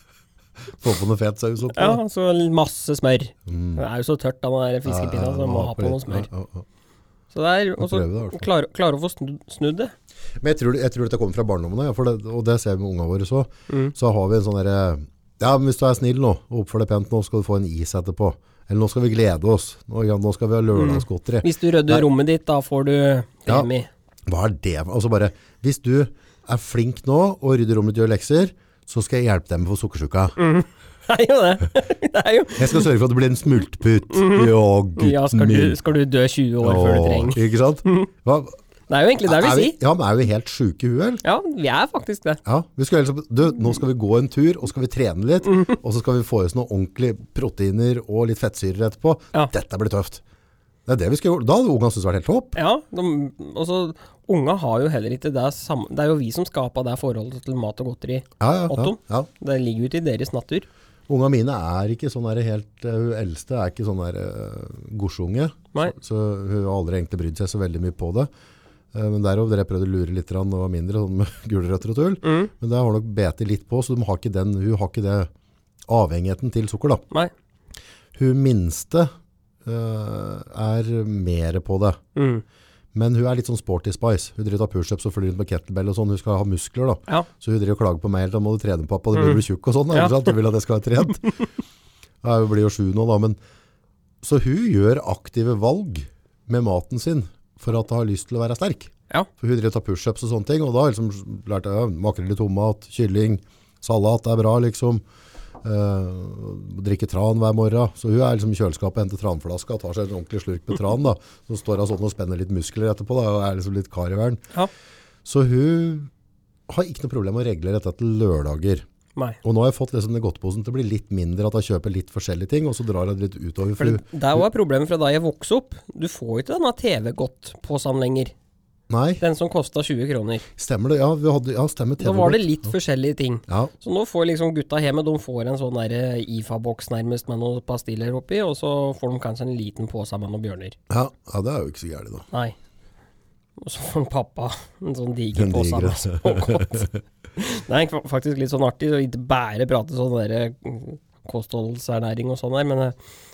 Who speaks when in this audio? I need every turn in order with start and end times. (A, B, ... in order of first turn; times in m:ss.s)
0:00.7-0:02.0 A
0:01.7-0:06.3 B
0:03.5-0:03.8 A
0:04.8-0:06.6 A
0:07.3-0:09.9 B
0:07.8-0:08.5 A
0:10.4-0:22.1 A
0:13.7-0:13.9 B
0:20.7-0:23.9 B
0:24.3-0:30.4 A
0:30.4-0:32.9 B
0:32.6-0:35.8 A
0:34.1-0:38.1 B
0:36.6-0:38.6 A
0:38.9-0:39.8 B
0:39.2-0:41.2 A
0:41.2-0:42.4 B
0:42.4-0:50.2 A
0:50.9-0:52.6 A
0:52.6-1:00.7 B
0:58.4-0:59.3 A
1:01.1-1:08.3 A
1:08.9-1:15.3 A
1:12.2-1:12.5 B
1:15.9-1:17.0 A
1:18.1-1:19.1 A
1:19.6-1:22.0 A
1:22.1-1:22.4 B
1:22.9-1:31.3 A
1:29.1-1:30.3 B
1:32.2-1:33.4 A
1:34.2-1:45.0 A
1:45.6-1:54.4 A
1:55.2-1:56.1 A
1:56.7-1:58.8 A
1:59.4-2:04.4 A
2:03.8-2:08.3 B
2:08.9-2:09.2 A
2:09.2-2:10.4 B
2:10.6-2:12.7 A
2:12.0-2:20.8 B
2:13.5-2:13.7 A
2:20.9-2:22.2 A
2:22.3-2:22.6 B
2:23.6-2:26.8 B
2:25.3-2:27.0 A
2:27.4-2:33.0 B